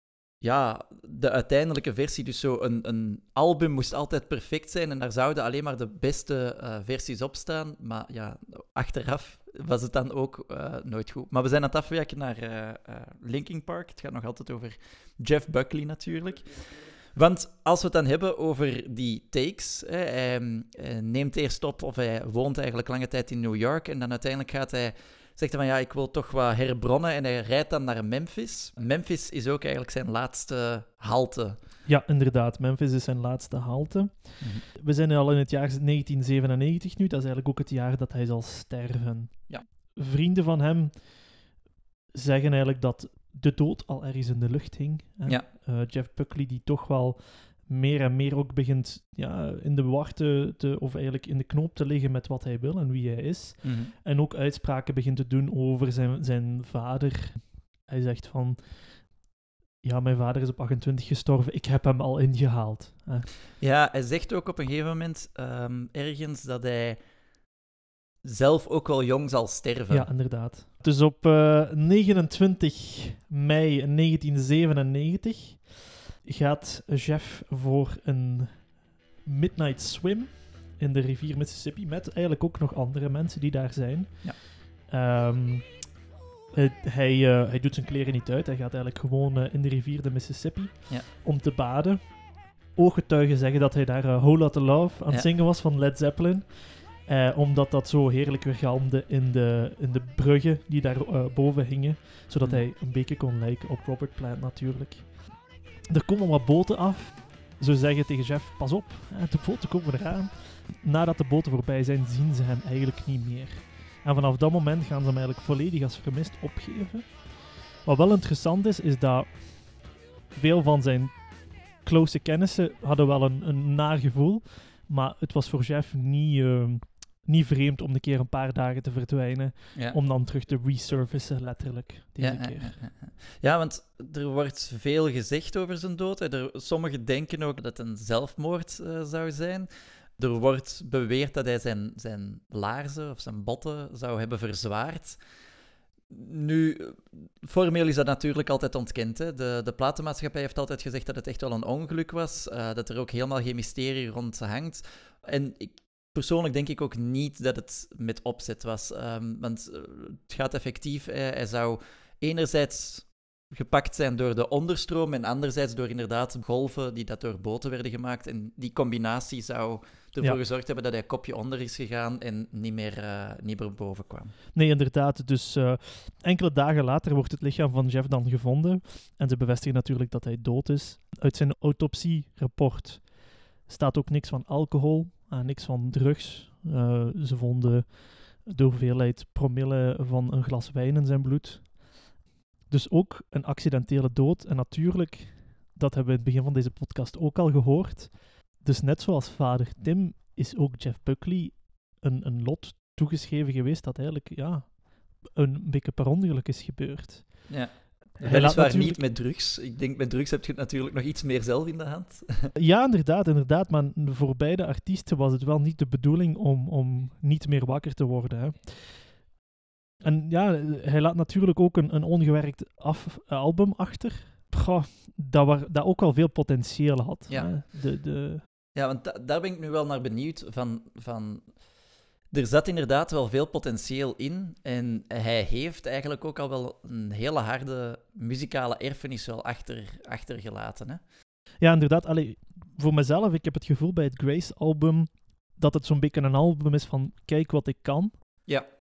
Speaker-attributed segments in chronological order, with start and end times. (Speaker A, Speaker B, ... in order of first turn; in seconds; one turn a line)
Speaker A: 0.4-31.6
Speaker B: 31.9-41.4
Speaker B: 42.1-59.2
Speaker A: 53.6-53.9
Speaker B: 59.8-63.3
Speaker A: 63.6-67.0
Speaker A: 68.2-70.1
Speaker B: 69.9-85.9
Speaker B: 86.5-132.8
Speaker A: 132.2-145.2
Speaker A: 146.1-174.3
Speaker B: 174.5-191.8
Speaker B: 192.7-207.6
Speaker A: 207.5-212.5
Speaker B: 208.2-209.0
Speaker B: 212.6-219.2
Speaker B: 220.0-228.4
Speaker A: 227.3-227.6
Speaker A: 228.7-231.5
Speaker A: 232.3-241.0
Speaker B: 241.6-248.2